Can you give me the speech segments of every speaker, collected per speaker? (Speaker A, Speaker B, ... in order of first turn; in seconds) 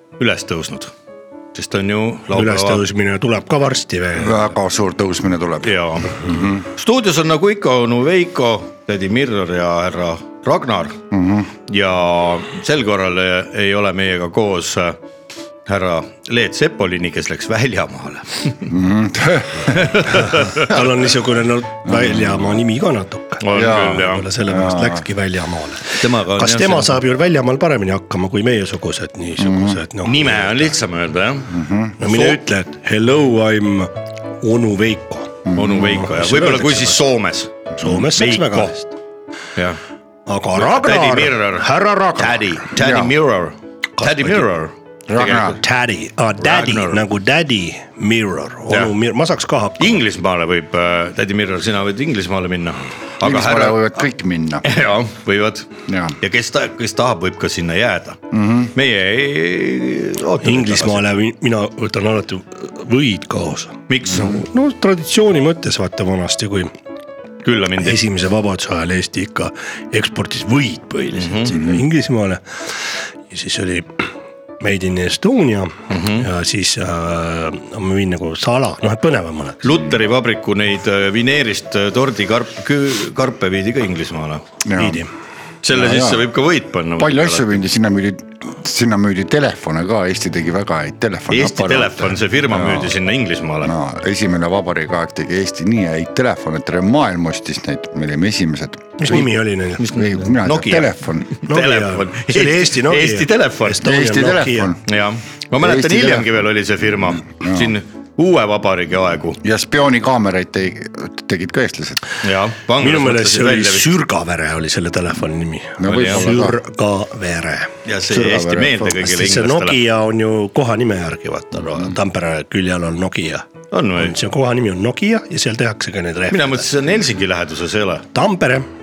Speaker A: 0.2-0.9, 1.5-2.8, 5.6-11.0, 11.7-15.0, 15.7-18.7, 19.7-20.9, 23.4-24.3, 26.0-27.0, 30.1-32.4, 35.5-38.8, 40.6-45.6, 46.4-47.0, 49.8-53.9, 54.6-55.7, 56.2-58.2, 58.8-61.1, 63.9-64.4, 67.4-68.0, 71.2-71.8, 75.9-76.3, 79.6-84.4, 85.6-87.6, 91.3-93.7, 99.8-104.0, 104.9-109.4, 112.2-114.0, 115.8-116.4, 117.9-119.8, 123.7-124.1, 126.3-128.1
Speaker B: 2.3-4.5, 20.1-30.7, 32.0-37.0, 37.8-38.8, 40.3-42.5, 44.0-44.5, 45.6-50.0, 60.4-66.7, 67.8-72.4, 73.3-74.1, 74.6-79.6, 84.8-85.1, 99.0-99.8, 101.5-104.7, 112.8-126.6, 128.1-128.7
Speaker C: 4.2-6.6, 11.1-11.5, 18.7-19.8, 21.9-22.4, 23.5-25.1, 29.4-29.8, 31.5-32.0, 35.5-36.0, 42.8-43.1, 45.1-45.6, 53.2-54.7, 55.9-56.1, 58.3-58.7, 84.7-85.0, 85.7-86.3, 87.0-92.9, 93.6-99.3, 99.9-101.3, 103.8-104.8, 105.6-106.4, 107.3-107.7, 109.4-112.0, 115.8-116.6, 118.2-118.7